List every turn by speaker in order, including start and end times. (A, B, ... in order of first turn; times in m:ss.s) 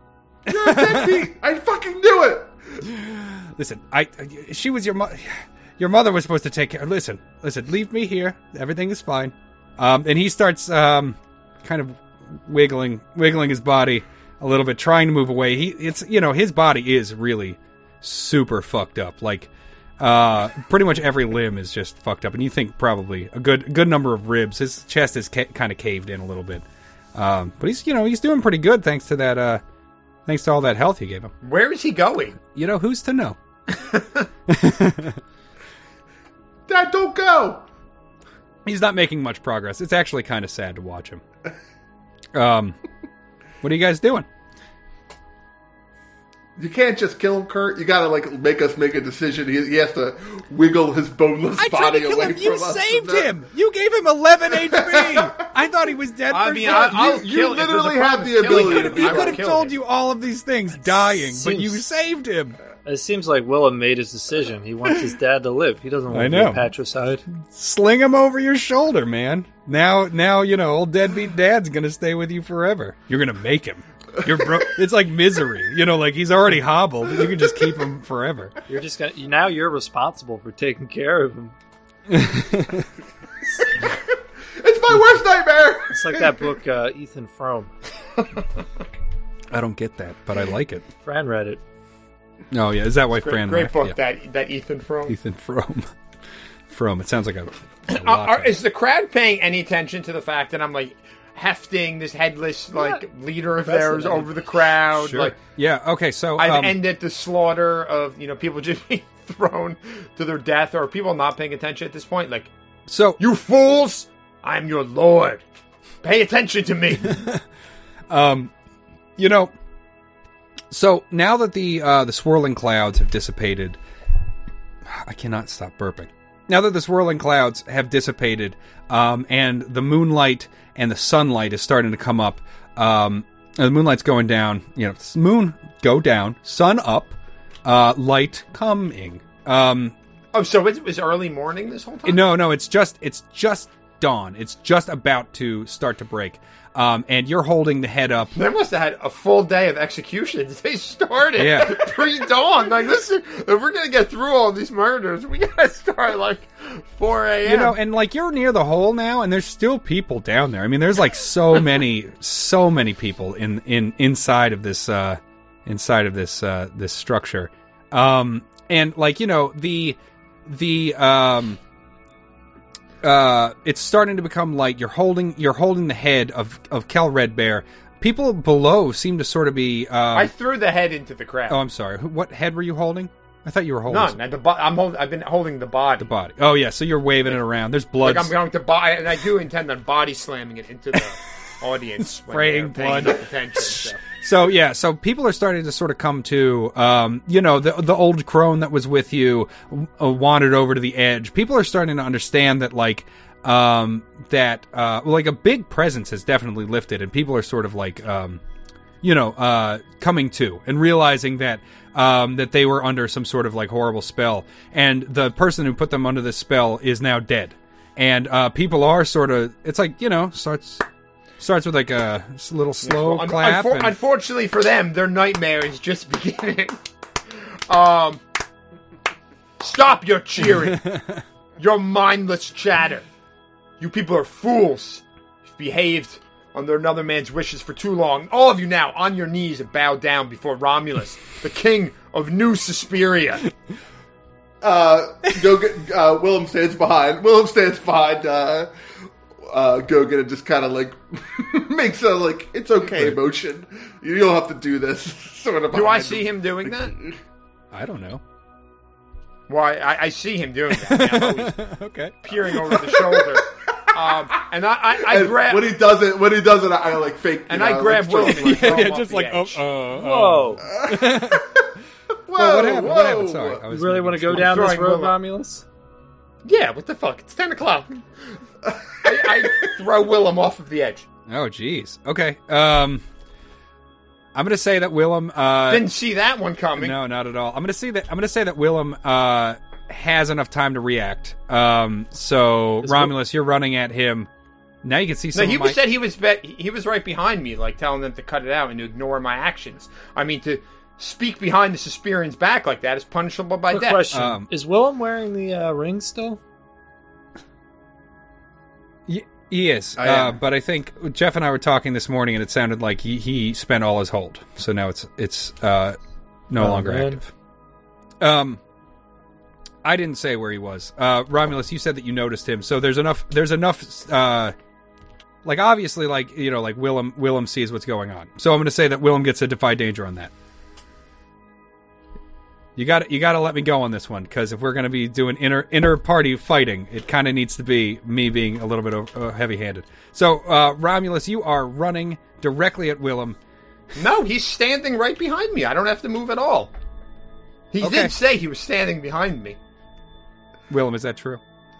0:00.4-0:02.8 A
0:00.5-0:01.2 B
0:02.9-0:29.6 B
0:30.2-0:31.3 B
0:31.4-0:32.4 C
0:32.5-0:33.4 B
0:33.7-0:34.3 C
0:34.5-0:35.2 B
0:36.7-0:37.6 A
0:38.6-0:41.2 B
0:42.3-0:42.8 B
0:43.6-0:44.3 B
0:46.6-0:53.3 A
0:51.6-0:57.1 B
0:54.5-0:55.3 A
0:56.3-0:59.7 C
0:56.6-0:59.4 A
0:58.5-1:02.6 B
1:00.8-1:01.8 D
1:02.8-1:07.2 D
1:06.1-1:06.6 B
1:07.3-1:18.5 B
1:18.7-1:21.5 D
1:22.1-1:22.9 B
1:23.8-1:26.5 A
1:25.9-1:27.7 D
1:29.5-1:30.9 B
1:31.0-1:31.6 D
1:32.5-1:34.0 B
1:33.1-1:35.2 C
1:35.1-1:35.9 B
1:36.7-1:38.6 B
1:37.9-1:45.4 C
1:42.7-1:43.0 D
1:43.6-1:44.4 D
1:44.9-1:46.8 B
1:46.4-1:52.5 C
1:52.9-1:53.2 B
1:53.2-1:55.4 C
1:56.0-1:57.2 C
1:57.1-1:57.4 B
1:58.1-1:58.5 B
1:59.2-1:59.5 B
2:00.7-2:03.8 B
2:04.9-2:19.9 B
2:20.3-2:22.2 C
2:22.0-2:28.3 B
2:28.3-2:37.8 C
2:31.4-2:31.9 B
2:37.4-2:51.6 B
2:53.0-3:00.3 B
3:00.1-3:01.6 C
3:01.5-3:04.2 B
3:03.9-3:06.1 C
3:06.0-3:08.3 B
3:08.0-3:14.0 C
3:12.0-3:28.4 B
3:29.0-3:40.8 B
3:41.4-3:44.0 B
3:42.8-3:46.8 C
3:47.7-3:48.2 C
3:49.6-3:50.9 C
3:51.6-3:53.0 C
3:53.8-4:03.5 C
4:04.6-4:08.7 A
4:09.4-4:17.2 A
4:12.9-4:13.2 B
4:15.7-4:17.0 C
4:17.7-4:18.2 B
4:19.5-4:21.6 C
4:20.7-4:22.8 B
4:22.2-4:25.6 C
4:25.0-4:28.9 A
4:27.5-4:29.6 C
4:28.2-4:31.6 B
4:29.9-4:30.6 D
4:30.6-4:31.6 A
4:32.2-4:33.6 A
4:32.3-4:34.7 B
4:33.7-4:35.6 D
4:34.3-4:35.1 C
4:36.4-4:38.4 C
4:38.6-4:39.7 A
4:39.0-4:41.0 C
4:41.3-4:43.0 B
4:44.3-4:45.9 B
4:45.7-4:47.0 C
4:46.8-4:54.3 B
4:52.8-4:53.1 D
4:54.8-4:55.8 B
4:55.3-5:04.0 C
5:03.7-5:06.4 D
5:04.1-5:04.5 B
5:09.1-5:16.0 B
5:10.0-5:10.4 A
5:16.5-5:17.3 B
5:16.6-5:17.2 D
5:18.2-5:18.6 B
5:19.8-5:24.5 B
5:25.4-5:30.3 B
5:32.8-5:43.4 B
5:43.9-5:46.7 C
5:47.7-5:49.6 C
5:47.8-5:48.1 B
5:50.7-5:51.4 B